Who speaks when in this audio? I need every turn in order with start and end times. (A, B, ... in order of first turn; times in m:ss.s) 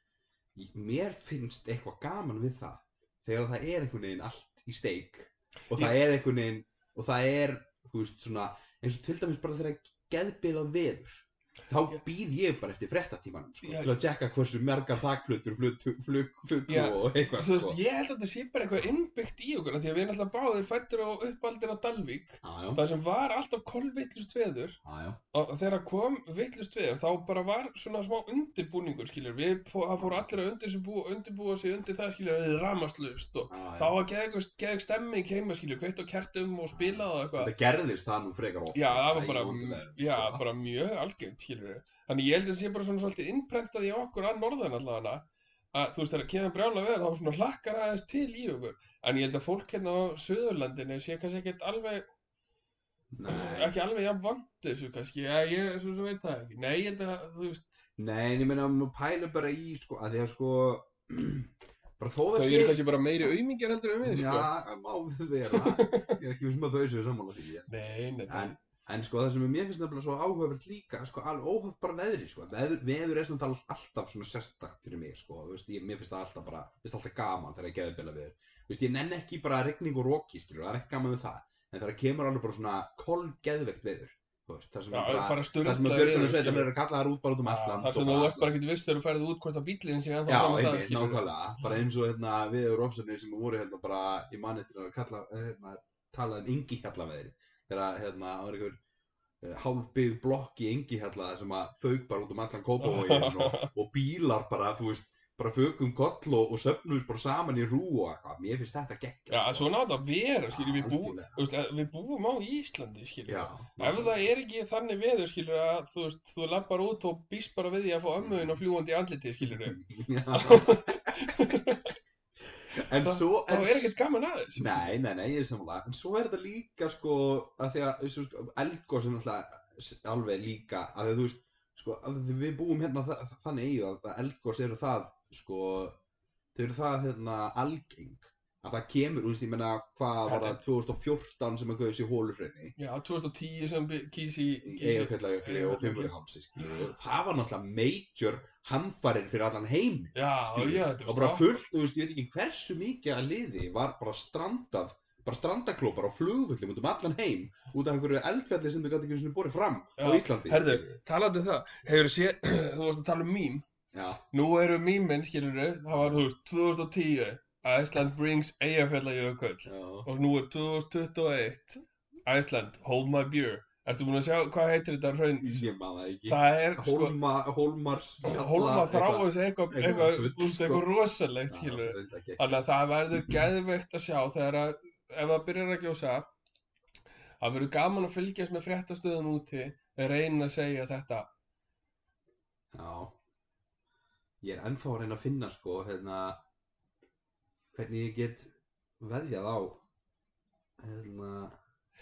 0:00.6-0:17.8 A
0:13.6-0:13.9 B
0:16.7-0:24.8 B
0:22.4-0:22.8 A
0:24.8-0:25.2 A
0:25.3-0:37.5 B
0:30.0-0:30.4 A
0:33.5-0:34.0 A
0:36.7-0:40.4 A
0:38.7-0:52.0 B
0:53.1-0:53.8 A
0:53.3-0:57.8 B
0:58.0-1:02.8 A
1:02.3-1:04.5 B
1:04.0-1:07.7 A
1:05.5-1:06.2 B
1:07.7-1:08.6 B
1:08.3-1:28.5 A
1:24.9-1:26.7 B
1:27.4-1:31.3 B
1:30.3-1:38.8 A
1:39.4-1:49.7 A
1:42.8-1:43.7 B
1:49.3-1:59.8 B
1:50.5-1:51.4 A
1:53.3-1:54.3 A
1:58.2-1:58.6 A
1:59.4-2:01.6 A
2:00.3-2:02.0 B
2:02.8-2:04.0 A
2:03.0-2:04.9 B
2:04.6-2:16.0 A
2:16.6-2:22.7 A
2:20.3-2:20.6 B
2:22.8-2:26.9 B
2:24.6-2:41.0 A
2:30.2-2:31.5 B
2:40.0-2:43.6 B
2:43.9-2:44.2 A
2:44.3-2:55.6 B
2:49.7-2:50.1 A
2:55.4-3:00.9 A
2:56.3-2:57.2 B
2:58.2-3:06.3 B
3:01.5-3:02.4 A
3:07.4-3:11.3 B
3:12.7-3:13.2 A
3:14.4-3:16.4 A
3:17.7-3:19.8 A
3:20.8-3:21.6 A